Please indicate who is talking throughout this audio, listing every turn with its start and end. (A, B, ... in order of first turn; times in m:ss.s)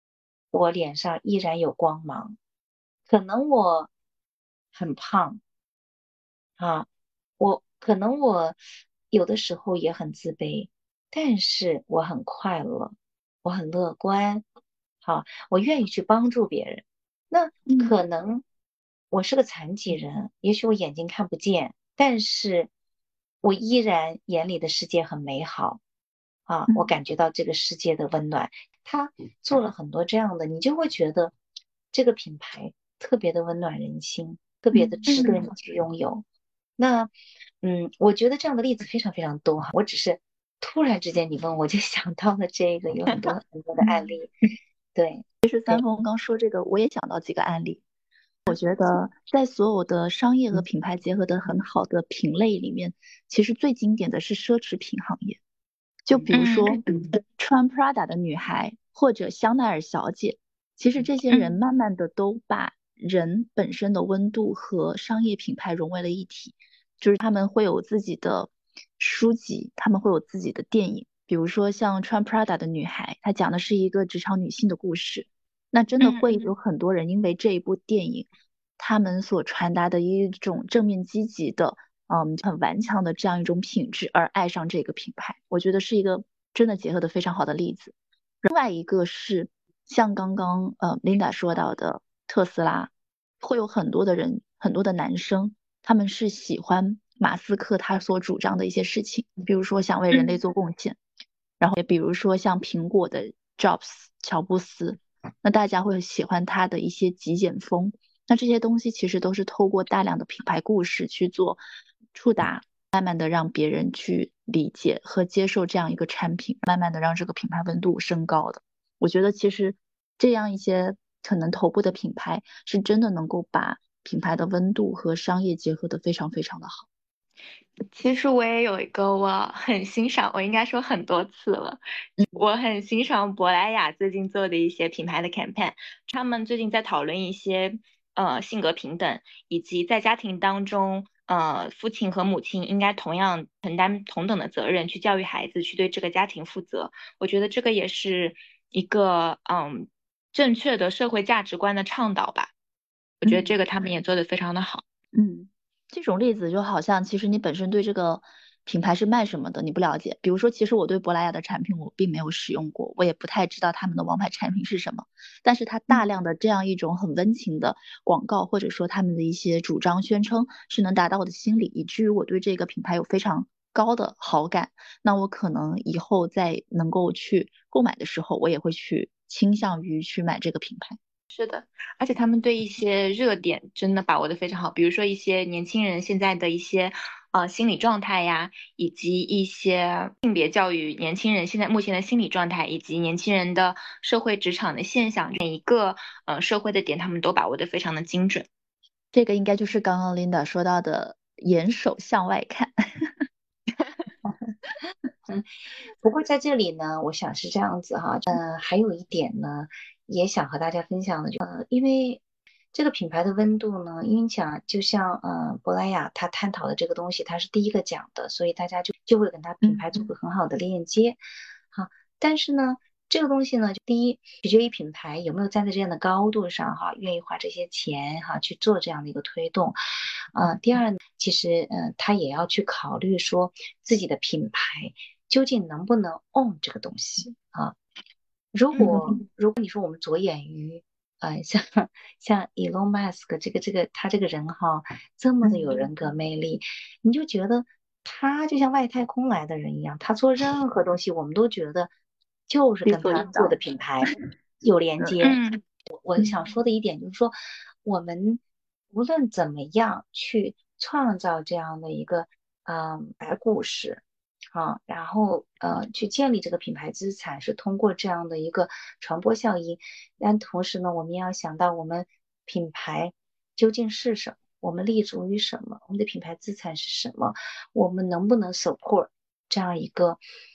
0:00.5-0:02.4 A
0:03.1-0:03.9 A
0:04.7-0:05.4 A
0:06.6-0:06.9 A
0:07.4-0:08.6 A
0:09.1-0:14.4 A
0:15.0-0:18.4 A
0:19.1-0:22.7 A
0:23.4-0:25.8 A
0:26.5-0:31.3 A
0:31.9-0:36.2 A
0:34.8-0:35.2 B
0:35.1-0:35.4 C
0:36.8-0:44.3 A
0:44.9-0:45.8 A
0:45.4-0:47.8 B
0:48.5-0:55.4 B
0:56.1-1:18.3 B
0:56.3-0:56.8 C
1:01.3-1:01.6 C
1:16.0-1:16.5 C
1:18.8-1:41.0 B
1:41.6-1:51.6 B
1:52.1-2:06.9 B
2:07.9-2:11.8 C
2:12.3-2:32.5 C
2:33.2-2:34.8 C
2:33.2-2:33.6 B
2:35.1-3:01.0 B
3:01.3-3:18.5 C
3:19.1-3:23.2 B
3:26.0-3:32.2 A
3:32.7-3:41.2 A
3:41.7-3:49.8 A
3:50.3-3:57.8 A
3:58.5-4:11.9 A
4:12.5-4:18.4 A
4:12.8-4:13.6 B
4:15.2-4:15.6 C
4:18.9-4:24.0 A
4:24.5-4:40.2 A